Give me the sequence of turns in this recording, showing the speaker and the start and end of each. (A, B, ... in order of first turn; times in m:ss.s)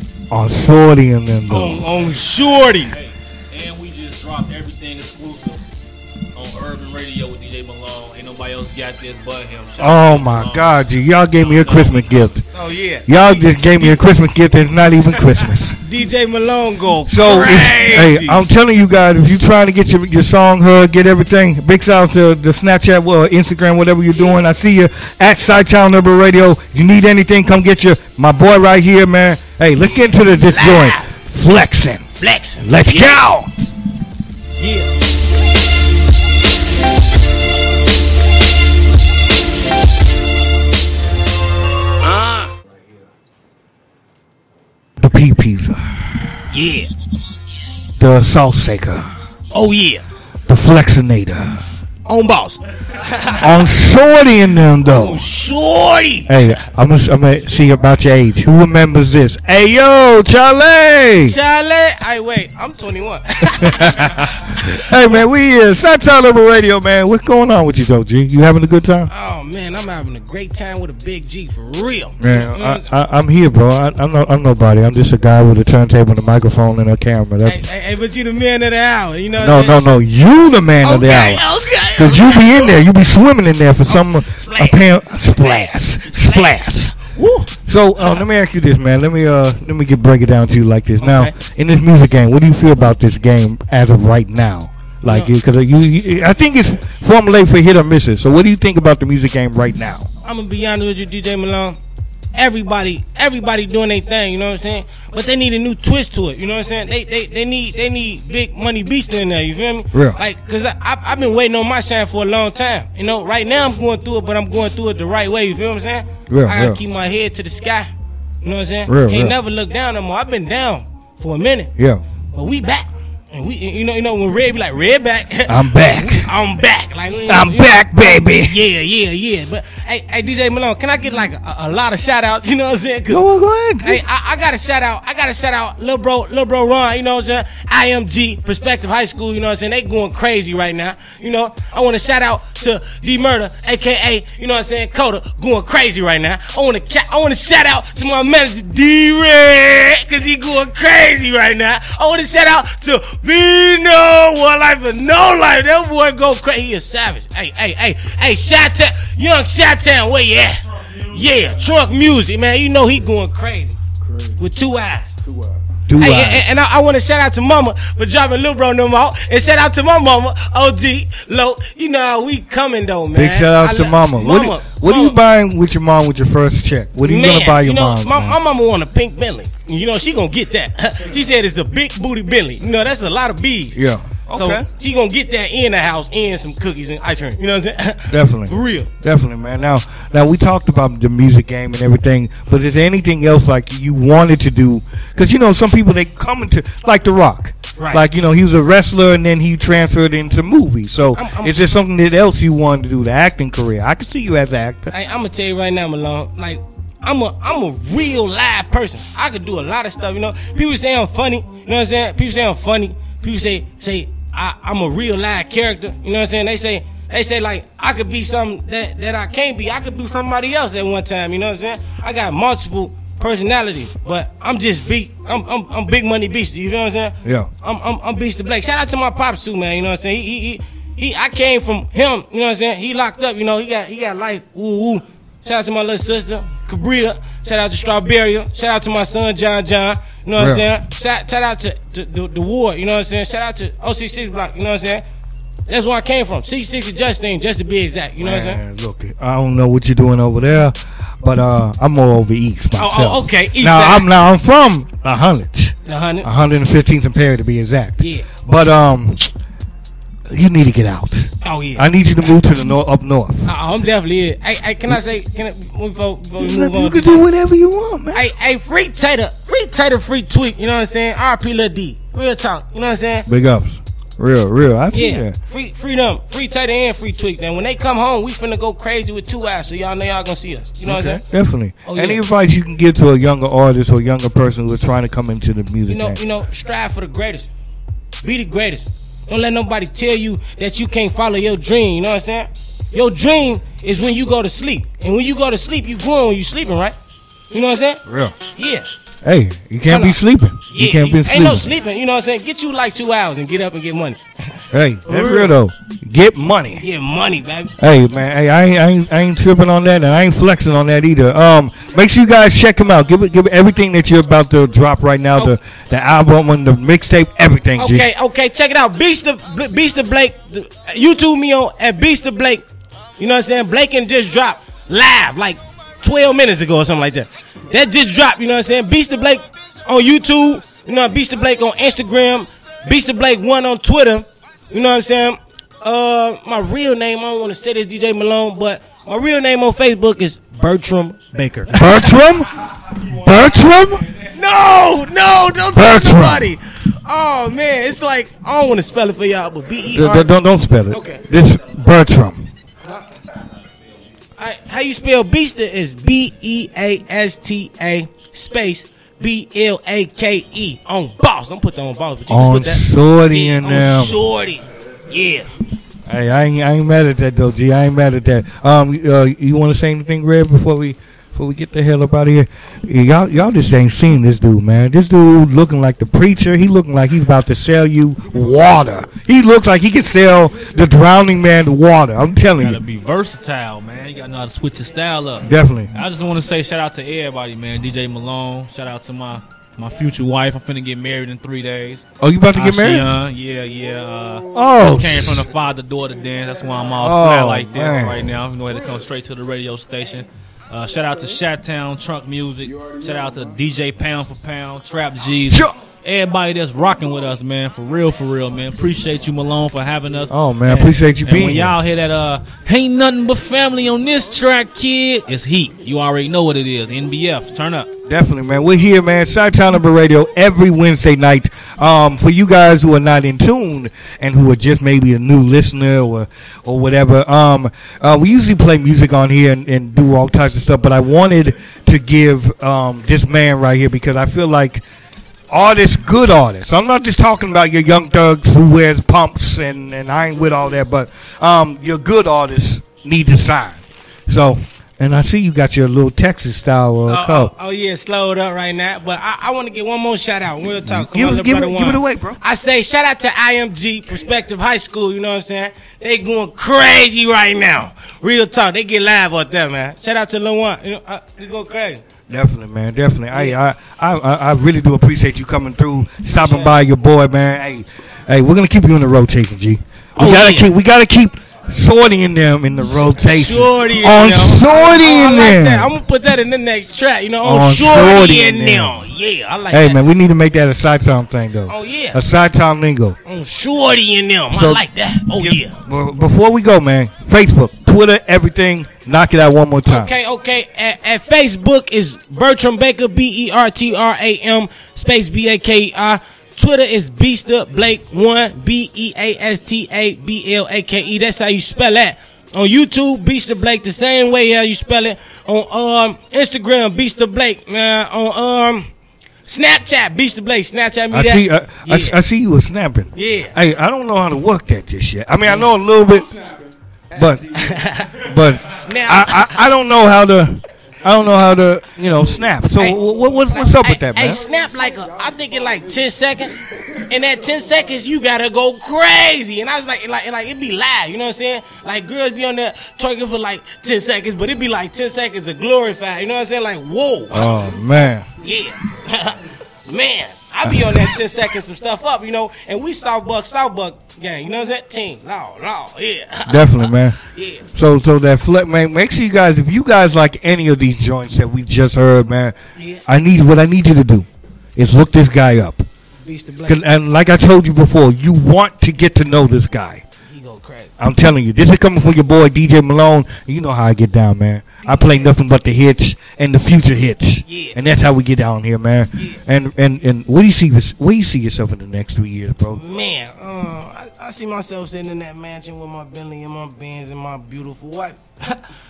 0:00.3-0:01.9 A
0:01.5-0:02.9 B
0:02.3-0:05.6 C
0:06.3-0:10.8 C
0:09.8-0:12.4 A
0:11.4-0:12.3 C
0:12.5-0:14.0 B
0:13.1-0:15.8 A
0:15.8-0:18.4 B
0:17.1-0:32.1 A
0:30.5-0:31.1 B
0:32.2-0:33.3 B
0:32.6-0:33.5 A
0:34.6-0:34.9 B
0:42.0-0:42.5 B
0:45.0-0:46.4 A
0:46.5-0:46.9 B
0:48.0-0:49.1 A
0:49.5-0:50.0 B
0:50.5-0:51.6 A
0:52.0-0:53.5 B
0:53.3-0:55.2 A
0:54.9-0:56.6 B
0:56.3-1:01.4 A
1:01.2-1:05.2 B
1:03.6-1:09.1 A
1:09.1-1:12.8 B
1:12.2-1:17.6 A
1:17.4-1:19.9 B
1:19.4-1:26.9 A
1:20.8-1:22.8 B
1:23.9-1:27.5 B
1:27.6-1:40.1 A
1:31.0-1:31.3 B
1:35.0-1:35.3 B
1:40.2-1:41.8 B
1:42.3-1:57.9 B
1:49.9-1:50.2 A
1:56.3-1:56.8 A
1:58.4-2:01.7 B
1:58.9-1:59.3 A
2:01.8-2:02.0 A
2:02.3-2:13.2 B
2:05.4-2:06.3 A
2:07.3-2:08.6 A
2:13.1-2:14.0 A
2:13.8-2:43.8 B
2:44.4-2:45.1 B
2:45.9-2:46.4 A
2:46.0-2:55.2 B
2:53.1-2:58.4 A
2:57.0-3:03.8 B
3:03.7-3:04.6 A
3:04.3-3:08.9 B
3:08.1-3:24.9 A
3:17.8-3:18.0 B
3:21.1-3:21.6 B
3:24.9-4:05.0 B
3:47.2-3:47.5 A
4:00.4-4:00.7 A
4:05.7-4:08.6 B
4:08.2-4:19.3 A
4:12.8-4:14.1 B
4:15.8-4:16.3 B
4:18.0-4:18.3 B
4:20.3-4:23.5 A
4:21.4-4:21.9 B
4:23.4-4:27.2 B
4:26.4-4:28.2 A
4:28.1-4:33.2 B
4:33.3-4:35.4 A
4:34.9-4:41.2 B
4:40.8-4:46.2 A
4:41.8-4:42.2 B
4:45.9-4:47.5 B
4:48.2-4:56.9 B
4:57.5-4:58.0 B
4:58.0-4:58.3 A
4:58.5-4:58.9 B
4:59.2-5:01.7 A
4:59.8-5:05.5 B
5:04.7-5:06.8 A
5:06.8-5:07.8 B
5:07.8-5:18.0 A
5:17.8-5:22.6 B
5:23.2-5:42.1 B
5:41.7-5:44.0 A
5:44.2-5:50.3 B
5:45.7-5:46.5 A
5:49.9-5:52.5 A
5:50.9-5:51.2 B
5:54.4-6:05.5 B
6:02.3-6:04.2 A
6:06.1-6:22.8 A
6:22.6-6:57.9 C
6:25.4-6:25.9 A
6:32.2-6:33.1 A
6:34.5-6:35.5 A
6:37.0-6:38.3 A
6:50.3-6:51.8 A
6:58.0-7:14.8 A
7:15.5-7:27.5 A
7:27.1-7:42.0 B
7:30.8-7:32.4 A
7:42.3-7:55.9 A
7:46.3-7:46.8 B
7:50.2-7:50.7 B
7:53.3-8:00.0 B
7:57.4-7:59.1 A
7:59.7-8:03.2 A
8:01.7-8:02.2 B
8:03.2-8:05.7 B
8:04.5-8:10.1 A
8:09.8-8:28.9 B
8:29.5-8:32.2 B
8:31.1-8:36.3 A
8:33.1-8:33.5 B
8:35.4-8:35.7 B
8:37.1-8:37.6 A
8:37.5-8:39.6 B
8:38.2-8:44.4 A
8:42.8-8:57.6 B
8:57.3-8:58.3 A
8:58.4-9:07.6 B
9:00.6-9:01.1 A
9:06.4-9:07.2 A
9:07.7-9:12.5 A
9:12.8-9:13.0 B
9:13.0-9:15.8 A
9:16.2-9:16.8 B
9:16.6-9:20.0 A
9:20.2-9:20.9 B
9:21.0-9:32.8 A
9:24.8-9:25.3 B
9:27.4-9:27.8 B
9:32.7-9:38.6 B